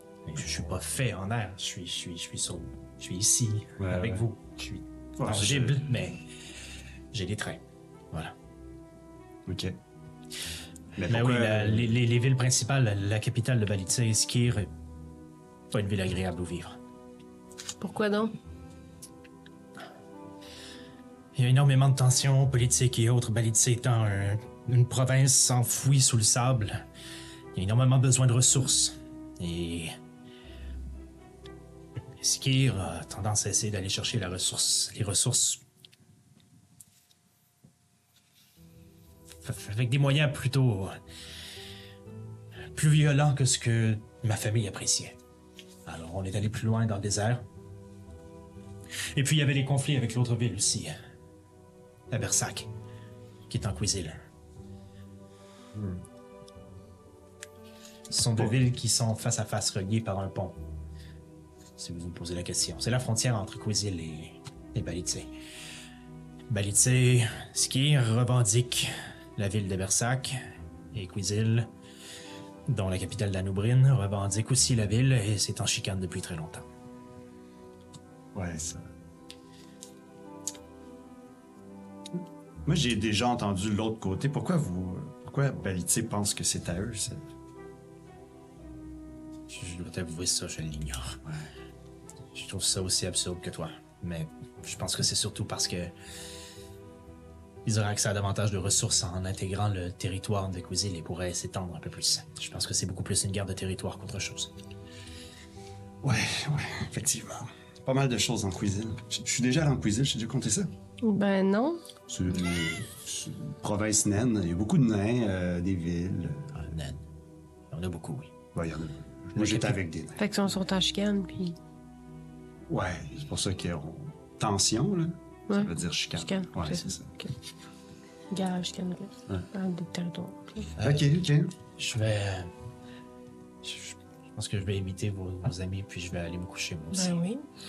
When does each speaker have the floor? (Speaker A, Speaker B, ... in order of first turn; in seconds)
Speaker A: 0.2-6.2, 7.1-8.3, 11.1-14.7, 15.7-16.8, 21.4-26.8, 27.5-29.9, 32.2-35.6, 39.4-41.0, 42.7-45.1, 45.9-47.4, 49.1-50.9, 52.1-52.7, 53.5-54.2, 58.1-60.6, 61.8-65.3, 66.5-70.4, 70.9-71.7, 72.7-76.7, 89.5-91.2, 92.3-95.9, 97.6-104.5, 116.5-117.0, 117.7-118.3, 119.3-119.8, 130.8-131.1, 131.8-132.5, 133.6-137.2
Speaker B: 3.8-4.2, 5.2-5.9, 9.4-9.8, 10.9-11.9, 55.7-56.0, 78.3-78.9, 82.2-87.3, 106.0-110.7, 112.1-116.7, 118.5-120.2, 122.7-127.1, 130.8-131.5
Speaker C: 17.8-18.3, 111.0-111.8, 120.2-121.6, 125.5-127.3, 128.3-130.7, 136.9-137.4